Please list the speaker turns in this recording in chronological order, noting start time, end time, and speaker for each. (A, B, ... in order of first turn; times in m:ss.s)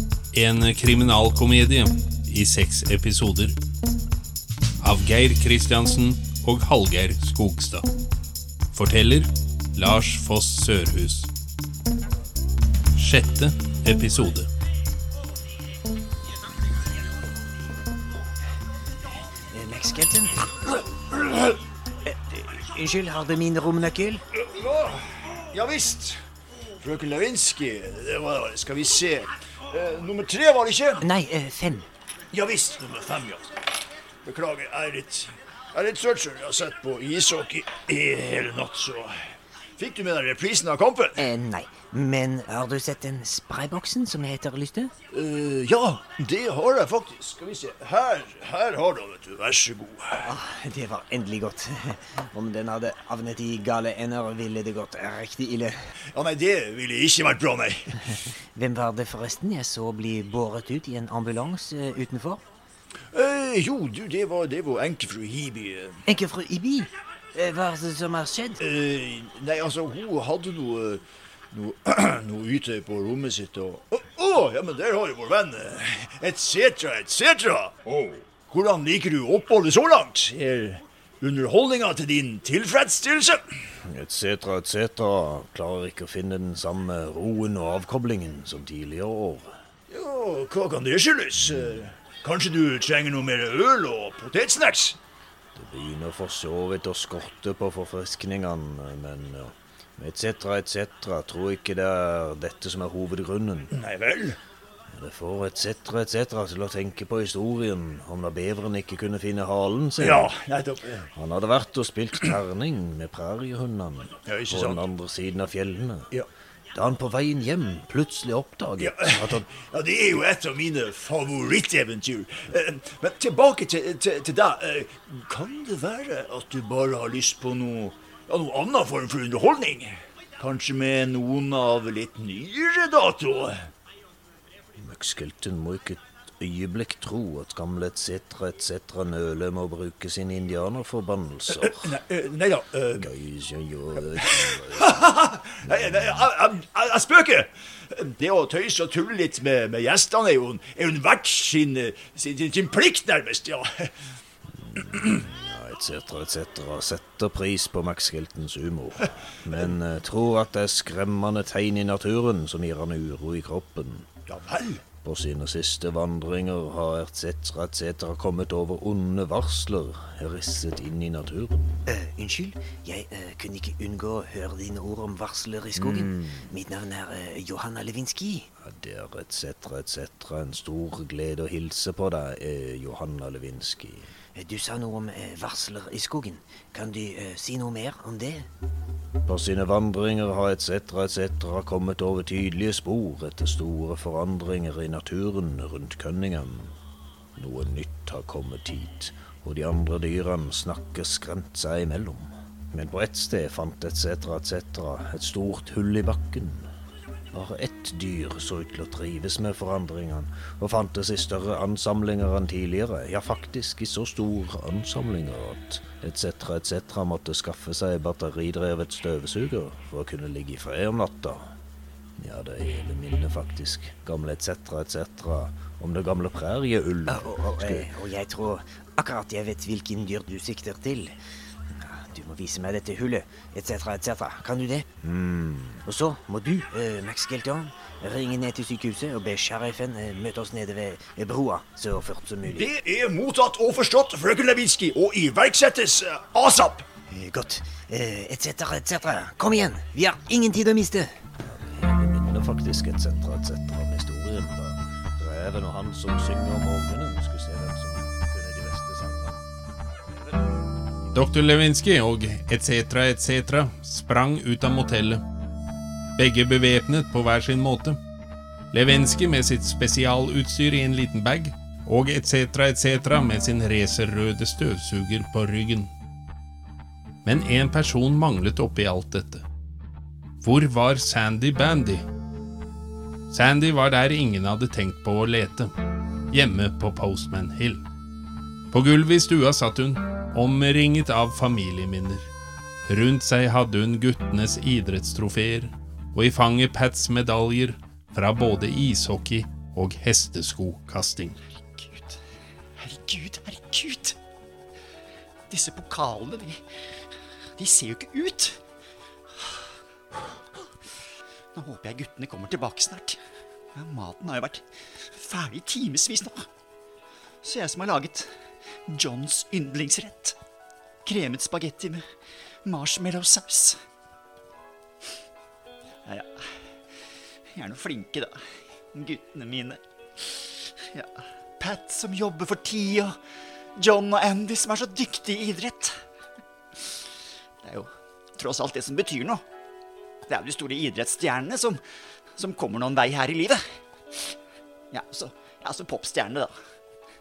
0:00.3-0:03.6 A
0:04.8-0:07.8 A
0:08.7-0:11.3 A
0:13.0-0:14.5 A
0:19.5-0:20.4 B
0:22.0-0:24.2 B
0:24.4-0:26.2 C
0:26.8-0:31.0 C
0:31.0-0:31.9 B
0:32.3-0:33.4 C
0:34.2-0:41.2 C
0:41.2-0:44.9 B
0:45.1-0:50.3 C
0:50.2-0:55.8 B
0:56.1-0:58.3 C
0:58.6-1:02.4 B
1:03.1-1:06.0 C
1:06.0-1:08.6 B
1:08.6-1:23.4 C
1:23.8-1:29.6 D
1:29.9-1:35.0 C
1:35.5-1:43.7 D
1:43.7-1:44.4 C
1:44.9-1:50.3 D
1:50.0-1:51.1 C
1:51.1-1:56.1 D
1:54.3-1:54.8 C
1:56.7-1:59.4 D
1:58.8-2:13.7 C
2:14.8-2:21.9 D
2:21.5-2:23.1 C
2:23.0-2:25.0 D
2:24.2-2:33.9 C
2:34.5-2:44.1 D
2:44.3-2:44.8 C
2:45.0-2:51.8 D
2:51.9-2:58.5 B
2:55.7-2:56.5 D
2:58.6-3:04.1 D
3:04.3-3:08.5 B
3:09.2-3:16.7 D
3:17.3-3:26.7 D
3:27.3-3:41.5 D
3:42.2-3:47.9 D
3:47.1-3:51.2 B
3:51.7-3:54.9 B
3:55.0-3:55.8 D
3:55.8-4:02.6 B
4:02.4-4:06.9 C
4:07.1-4:11.1 B
4:11.4-4:20.6 D
4:21.1-4:25.2 A
4:26.2-4:28.0 A
4:28.7-4:35.9 A
4:37.2-4:39.4 A
4:40.4-4:42.0 A
4:43.3-4:45.7 A
4:46.3-4:47.8 A
4:48.7-4:52.3 A
4:52.9-5:01.4 A
5:01.5-5:02.2 E
5:02.8-5:04.2 E
5:05.5-5:06.6 E
5:07.6-5:08.6 E
5:11.5-5:13.2 E
5:13.7-5:16.5 E
5:17.4-5:18.3 E
5:18.9-5:20.4 E
5:21.0-5:22.0 E
5:22.6-5:23.8 E
5:26.0-5:26.6 E
5:27.5-5:28.3 E
5:28.9-5:33.2 E
5:33.8-5:36.0 E
5:37.6-5:39.4 E
5:40.3-5:41.8 E
5:42.4-5:43.6 E
5:44.9-5:46.5 E